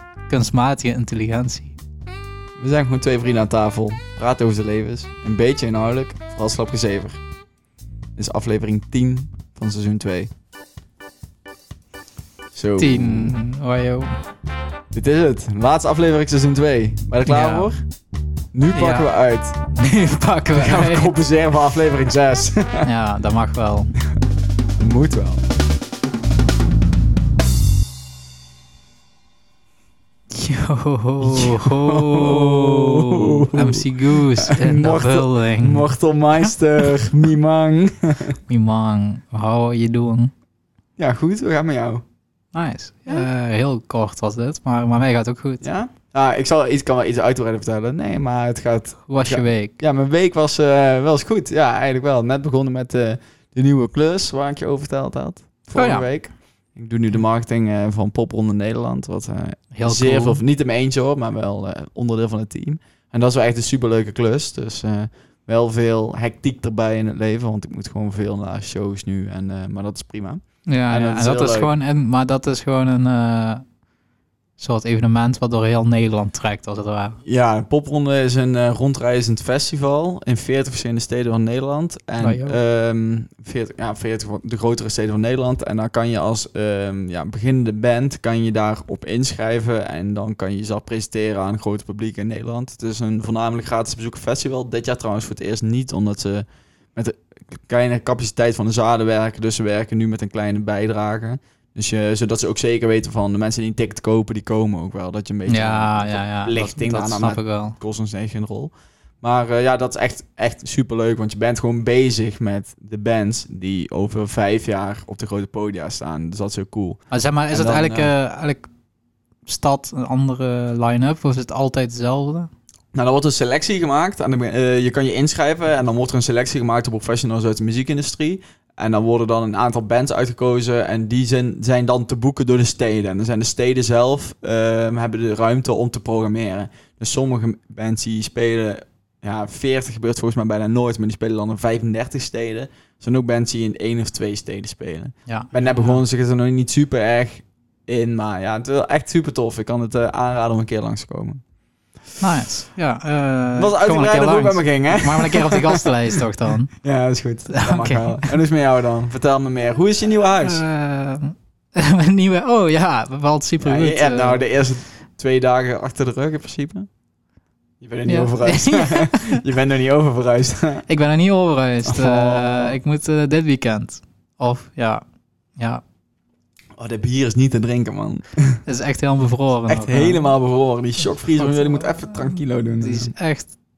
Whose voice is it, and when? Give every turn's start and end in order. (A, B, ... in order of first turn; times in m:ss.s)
0:00.3-0:01.7 A
0:02.6-0:07.2 B
0:08.2-0:10.3 B
0:12.5-0:13.4 B
0:12.8-0:14.2 A
0:14.9-0:17.8 B
0:17.3-0:17.7 A
0:18.5-0:19.6 B
0:18.8-0:21.1 A
0:20.5-0:22.9 B
0:22.8-0:23.9 A
0:24.8-0:25.4 B
0:30.3-0:35.9 A
0:31.2-0:38.4 B
0:36.4-0:36.9 A
0:38.5-0:40.3 A
0:41.0-0:42.0 B
0:42.5-0:45.6 A
0:45.6-1:11.7 B
0:49.1-0:49.8 A
0:55.8-0:56.0 A
0:59.7-1:00.4 A
1:10.7-1:13.6 A
1:14.6-1:17.2 A
1:17.2-1:58.1 B
1:22.2-1:22.6 A
1:45.5-1:47.8 A
1:57.1-1:58.7 A
1:59.5-2:02.5 A
2:02.9-2:31.4 B
2:25.3-2:26.0 A
2:32.2-2:36.7 A
2:33.6-2:36.2 B
2:36.8-2:40.6 B
2:37.5-2:38.3 A
2:40.4-2:44.4 A
2:43.6-2:46.9 B
2:47.8-2:50.9 B
2:48.1-2:49.4 A
2:50.9-2:55.0 A
2:51.8-2:52.8 B
2:55.6-2:55.8 A
2:56.8-2:58.6 B
2:58.7-3:00.3 A
2:59.7-3:03.1 B
3:01.4-3:03.5 A